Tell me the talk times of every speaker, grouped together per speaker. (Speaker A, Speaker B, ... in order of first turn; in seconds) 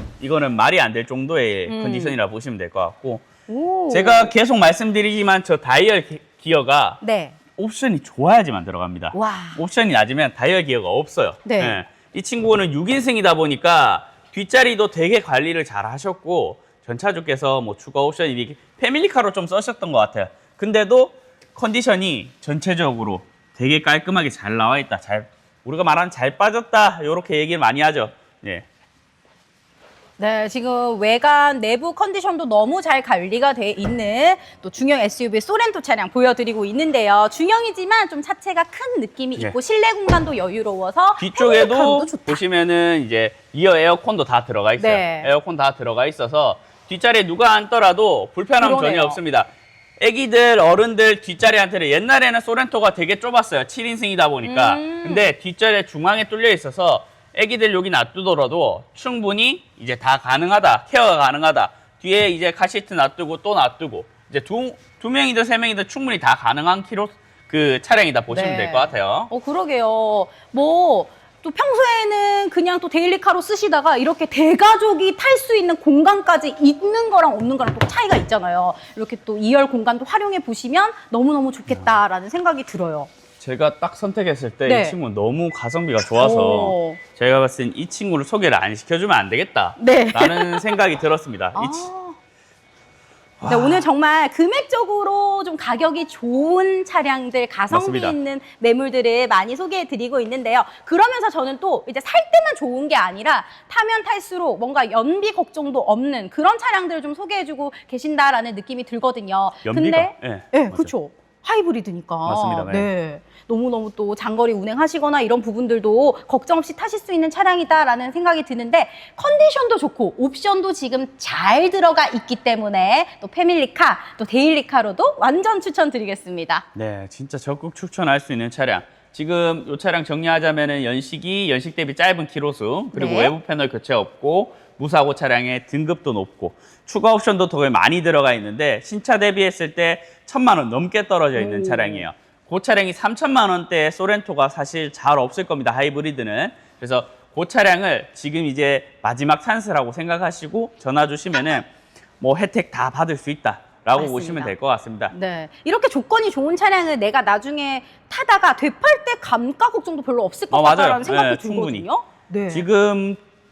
Speaker A: 0.2-3.2, 3.9-7.0, 7.6-28.7, 41.2-49.5, 50.0-69.3, 81.7-81.9, 83.4-91.9, 93.4-93.8, 97.7-98.2, 109.6-110.9, 112.2-112.9, 126.8-151.7, 152.2-155.1, 160.5-161.9, 162.5-163.2
Speaker B: 1.7-2.1, 3.5-4.3, 7.0-7.4, 9.1-9.6, 11.4-11.8, 30.2-42.4, 44.8-45.3, 48.6-49.2, 54.4-55.3, 68.3-83.1, 84.7-85.0, 86.1-87.0, 89.8-90.8, 91.6-92.2, 93.5-126.7, 132.9-133.3, 141.4-142.1, 154.0-154.5, 155.1-162.7